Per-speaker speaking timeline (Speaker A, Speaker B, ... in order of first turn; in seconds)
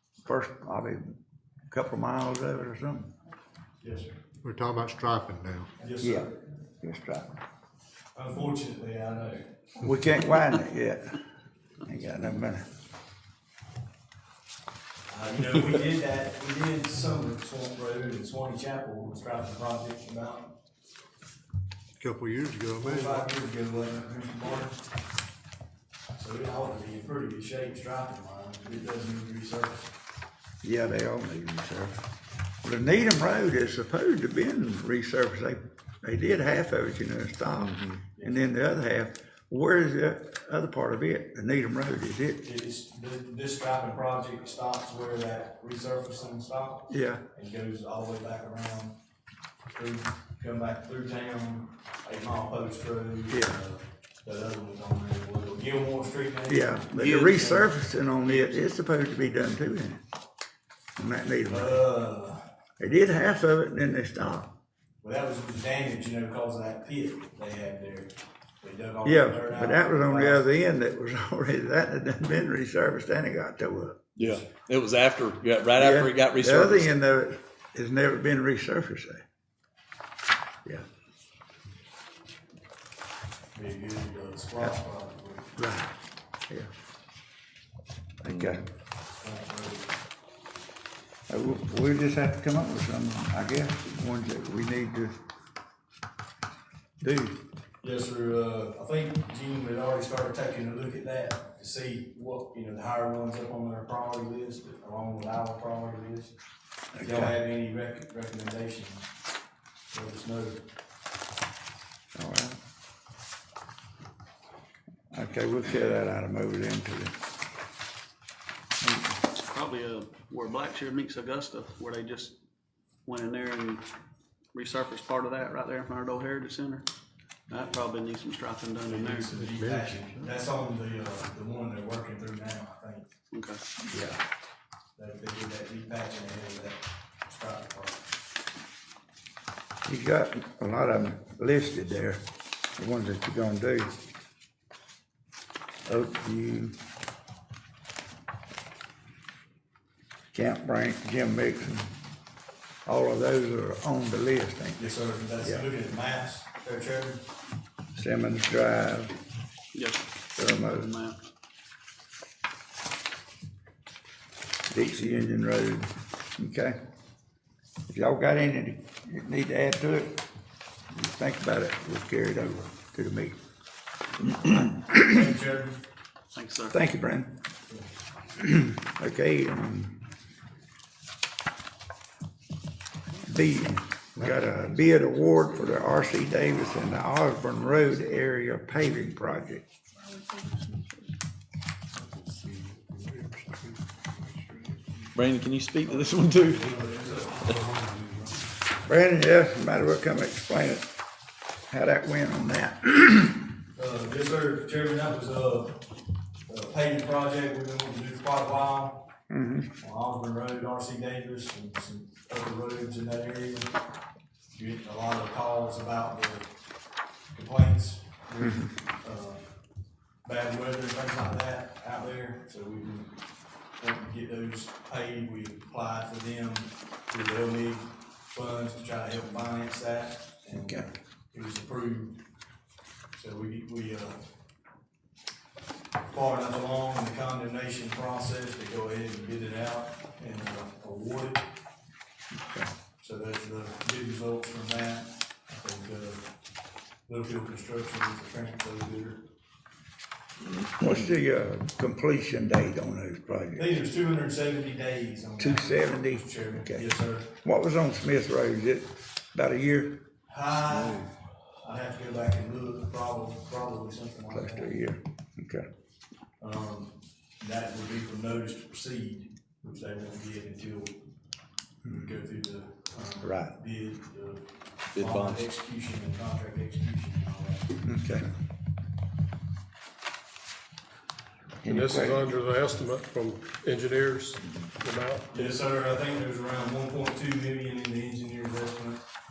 Speaker A: 0.2-1.1, 1.7-3.1, 6.0-7.3, 9.8-11.2, 11.8-12.6, 30.6-32.0, 32.6-42.4, 46.9-47.2, 53.3-53.6, 56.5-60.0, 61.0-61.8, 62.8-64.5, 69.0-74.0, 75.8-79.2, 85.6-85.9, 88.2-88.7, 91.3-95.1, 97.0-97.4, 106.9-107.3, 112.1-112.6, 115.1-117.2, 118.8-119.1, 133.9-134.2, 139.8-142.2, 142.8-144.0, 145.8-146.7, 150.3-151.9, 152.8-154.9, 155.4-155.7, 157.9-159.1, 160.3-160.9, 164.7-166.8, 167.9-170.2, 170.9-173.4, 174.2-175.2, 176.7-177.3, 178.4-180.0, 183.2-189.6, 198.8-200.9, 201.7-203.5, 209.3-209.7, 218.4-218.7, 230.5-230.9, 242.4-242.7, 250.6-253.7, 255.4-256.9, 257.4-260.0, 264.3-265.6, 271.8-272.2, 273.2-273.5, 277.8-278.3, 281.6-282.3
Speaker B: 3.8-4.1, 5.8-6.3, 8.1-9.5, 15.1-20.5, 22.8-24.8, 26.1-29.9, 38.1-38.4, 42.4-49.0, 49.7-57.7, 61.5-62.4, 65.0-70.5, 74.2-74.6, 83.5-85.5, 89.2-89.9, 97.8-106.3, 107.0-109.1, 109.9-110.6, 128.8-133.3, 134.9-138.0, 154.8-157.2, 174.9-175.8, 195.8-197.4, 203.7-205.8, 206.5-209.1, 209.8-213.7, 214.5-216.5, 217.3-219.5, 220.2-223.2, 223.8-232.2, 233.1-234.2, 236.1-241.5, 243.0-246.2, 247.1-249.2, 253.5-257.3, 260.3-264.8, 266.4-271.0, 271.9-277.7, 285.3-289.0
Speaker C: 4.4-5.7, 22.0-23.3, 129.5-129.9, 192.0-195.1, 197.4-198.4
Speaker D: 74.2-76.9, 195.2-196.6, 274.9-275.4
Speaker E: 119.5-122.3, 123.0-123.8, 124.5-126.8, 127.5-129.3, 160.6-161.1, 176.3-176.7, 189.9-191.1
Speaker F: 281.6-285.3